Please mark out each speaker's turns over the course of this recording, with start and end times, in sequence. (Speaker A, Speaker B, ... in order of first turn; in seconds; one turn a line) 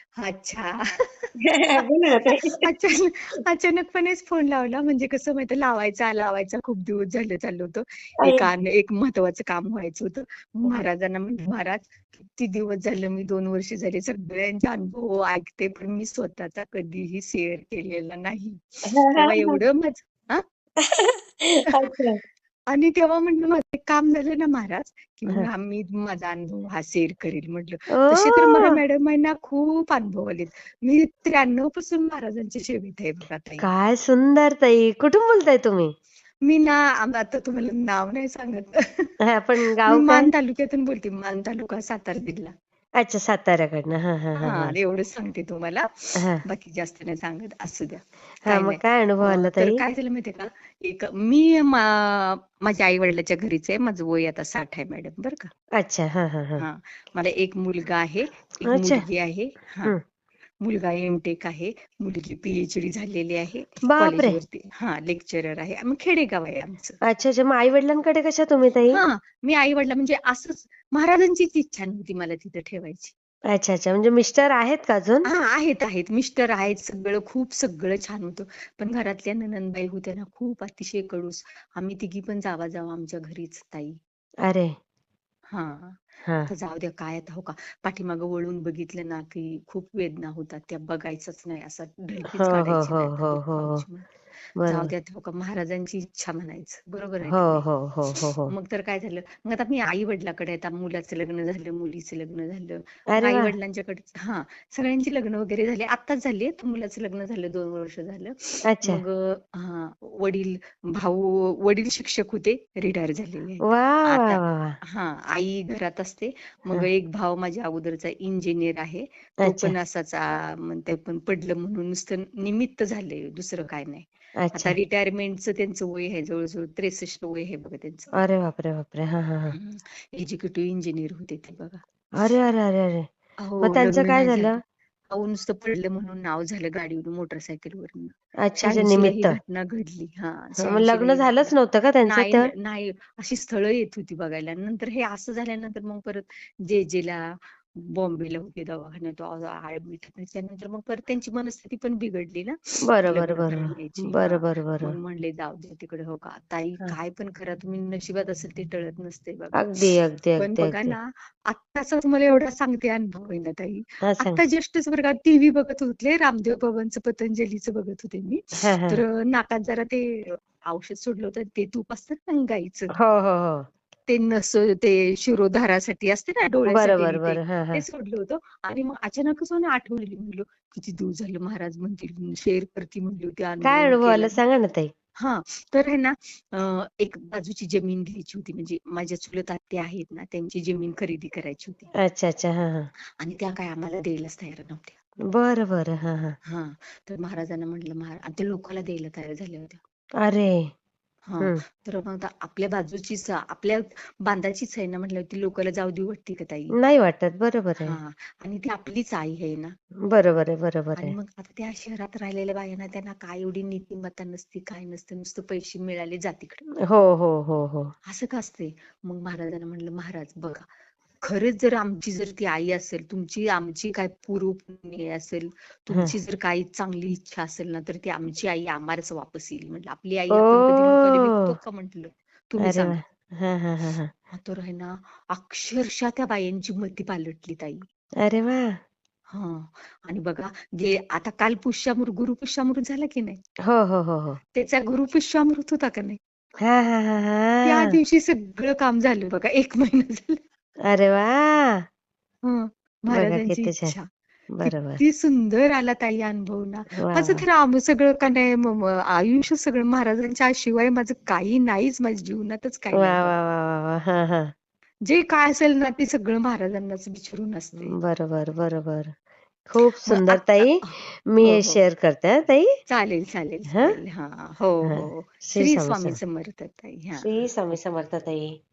Speaker A: 0.1-0.8
Speaker B: 1.4-2.6
Speaker A: 2.6-18.6
Speaker B: 18.9-19.6
Speaker A: 19.2-20.4
Speaker B: 20.8-22.2
Speaker A: 22.7-33.7
Speaker B: 28.0-28.8
Speaker B: 33.6-35.9
Speaker A: 36.4-39.1
Speaker B: 39.3-40.3
Speaker A: 39.8-42.5
Speaker B: 43.0-44.7
Speaker A: 44.4-45.9
Speaker A: 46.4-55.5
Speaker B: 48.5-49.8
Speaker B: 55.8-56.6
Speaker A: 56.6-59.9
Speaker B: 58.7-59.0
Speaker A: 60.6-67.0
Speaker B: 63.9-64.4
Speaker B: 67.0-69.0
Speaker A: 68.9-73.1
Speaker B: 73.5-75.3
Speaker A: 75.2-84.0
Speaker B: 84.5-84.7
Speaker A: 85.5-94.1
Speaker B: 92.3-93.8
Speaker B: 94.6-94.9
Speaker A: 94.6-97.6
Speaker B: 97.3-98.5
Speaker A: 98.5-128.1
Speaker B: 103.1-103.5
Speaker B: 108.7-109.0
Speaker B: 113.7-114.7
Speaker B: 119.4-119.7
Speaker B: 124.4-124.7
Speaker B: 128.2-129.5
Speaker A: 129.5-131.8
Speaker B: 132.2-133.1
Speaker A: 133.4-134.5
Speaker B: 133.6-134.6
Speaker A: 135.1-141.5
Speaker B: 138.4-139.4
Speaker B: 140.6-142.5
Speaker A: 142.0-159.6
Speaker B: 152.9-154.9
Speaker B: 159.6-160.9
Speaker A: 160.4-172.9
Speaker B: 164.0-164.4
Speaker B: 168.6-169.0
Speaker B: 173.0-173.6
Speaker A: 174.1-184.4
Speaker B: 176.7-177.8
Speaker B: 183.6-184.9
Speaker A: 185.2-191.9
Speaker B: 192.0-192.9
Speaker A: 193.2-194.9
Speaker B: 195.3-196.3
Speaker A: 196.4-199.8
Speaker B: 200.2-200.6
Speaker A: 201.3-206.7
Speaker B: 206.8-208.0
Speaker A: 207.8-209.7
Speaker B: 210.1-211.1
Speaker A: 211.0-216.6
Speaker B: 216.9-217.9
Speaker A: 218.1-220.7
Speaker A: 221.2-233.0
Speaker B: 230.3-231.5
Speaker B: 232.6-234.1
Speaker A: 234.3-237.8
Speaker B: 238.2-238.7
Speaker A: 239.3-243.4
Speaker B: 243.7-244.4
Speaker A: 244.5-246.2
Speaker B: 246.6-247.9
Speaker A: 247.6-250.4
Speaker B: 250.9-251.8
Speaker A: 252.4-254.1
Speaker B: 253.1-253.9
Speaker B: 254.5-255.0
Speaker A: 254.6-263.3
Speaker B: 257.0-257.4
Speaker B: 263.0-264.5
Speaker A: 265.1-268.0
Speaker B: 267.9-269.1
Speaker B: 269.7-270.8
Speaker A: 270.1-271.8
Speaker B: 271.3-272.7
Speaker A: 272.9-277.3
Speaker B: 274.9-276.2
Speaker B: 277.2-278.5